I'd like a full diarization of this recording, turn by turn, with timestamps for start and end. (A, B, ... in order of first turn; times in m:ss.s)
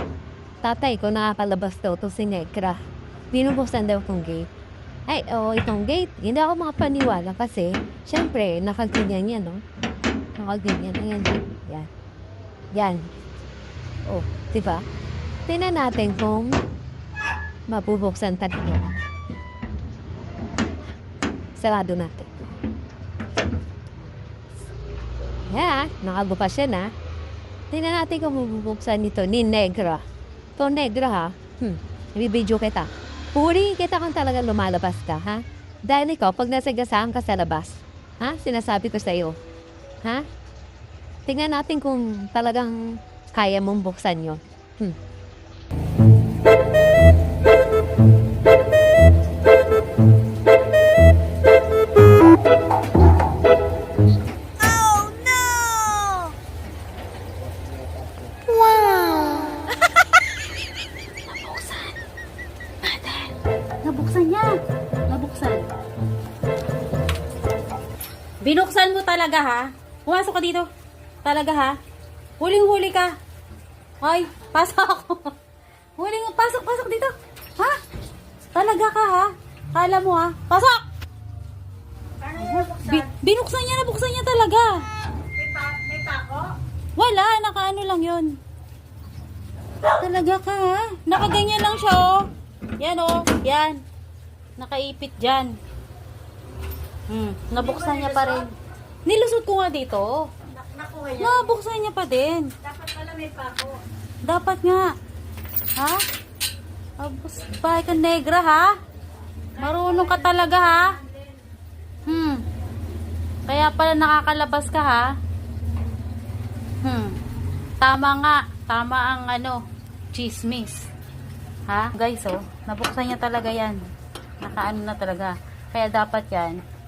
0:00.6-0:02.8 A
0:03.3-0:04.5 A
0:05.1-0:09.6 A
0:10.4-0:11.9 A
0:12.7-0:13.1 A
0:14.1-0:14.8 A
0:15.5-0:16.6 A
0:17.7-0:18.9 A
0:21.6-0:22.4 A
0:25.5-0:26.9 A
0:27.7-0:30.0 A
0:30.6-0:39.4 A
0:41.3-0:45.0 A
0:58.9-0:59.5 B
1:01.2-1:02.0 B
1:02.8-1:04.6 B
1:05.1-1:05.6 B
1:08.4-1:10.7 B
1:11.2-1:11.8 B
1:12.4-1:13.2 B
1:14.0-1:15.4 B
1:16.0-1:17.8 B
1:18.5-1:20.8 B
1:22.3-1:24.8 B
1:25.4-1:26.5 C
1:27.0-1:28.4 B
1:29.8-1:33.8 B
1:34.6-1:35.6 B
1:37.1-1:38.5 B
1:39.0-1:40.3 B
1:40.6-1:41.2 C
1:41.1-1:42.6 B
1:42.6-1:43.8 C
1:44.2-1:44.9 B
1:45.8-1:46.0 B
1:47.0-1:48.7 B
1:49.5-1:51.0 B
1:52.0-1:52.4 B
1:53.5-1:55.1 B
1:56.8-1:57.2 B
1:57.8-1:59.6 B
2:00.1-2:00.9 B
2:01.7-2:03.8 B
2:04.4-2:06.6 B